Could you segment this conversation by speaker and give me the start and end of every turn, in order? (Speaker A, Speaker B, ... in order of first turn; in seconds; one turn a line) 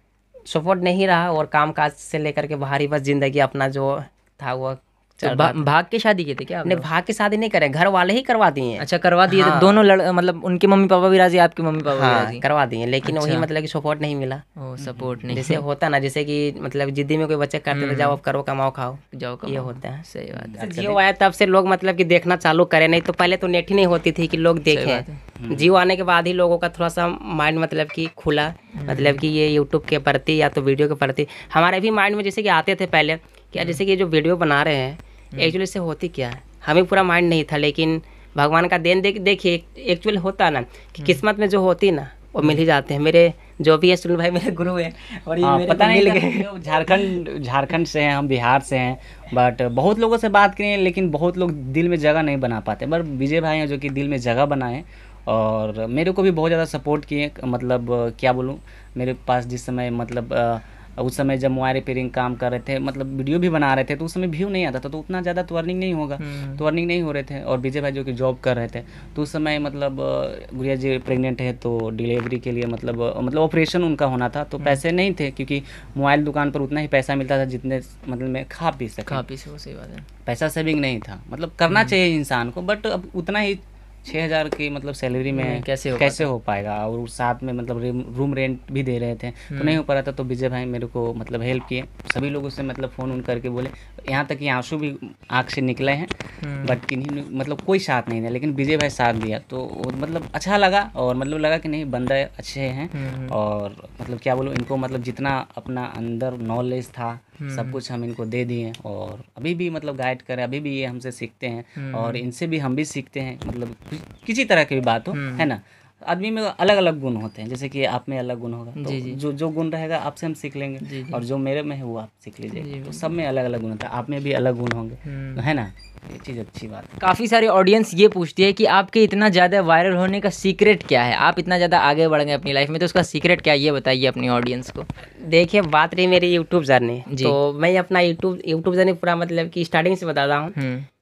Speaker A: 0.5-5.7
Speaker B: 5.2-6.8
Speaker A: 6.6-9.8
Speaker B: 8.8-12.4
Speaker A: 11.9-14.4
Speaker B: 13.0-13.4
Speaker B: 14.6-15.6
Speaker C: 14.8-15.2
Speaker A: 15.3-20.0
Speaker B: 17.7-18.2
Speaker B: 19.1-20.9
Speaker C: 20.3-20.9
Speaker A: 20.6-46.5
Speaker B: 24.7-25.2
Speaker C: 25.4-25.7
Speaker B: 28.7-29.2
Speaker C: 45.4-79.2
Speaker B: 66.2-66.6
Speaker B: 79.1-80.0
Speaker C: 80.2-127.0
Speaker B: 81.7-81.9
Speaker B: 85.3-86.3
Speaker B: 89.5-89.8
Speaker B: 96.4-96.8
Speaker B: 102.9-103.3
Speaker B: 107.4-107.8
Speaker B: 111.8-112.2
Speaker B: 115.1-115.5
Speaker B: 118.8-119.2
Speaker B: 120.8-121.2
Speaker B: 122.5-123.0
Speaker B: 125.0-125.4
Speaker B: 127.0-134.8
Speaker A: 135.2-140.6
Speaker B: 137.1-137.3
Speaker B: 140.6-140.9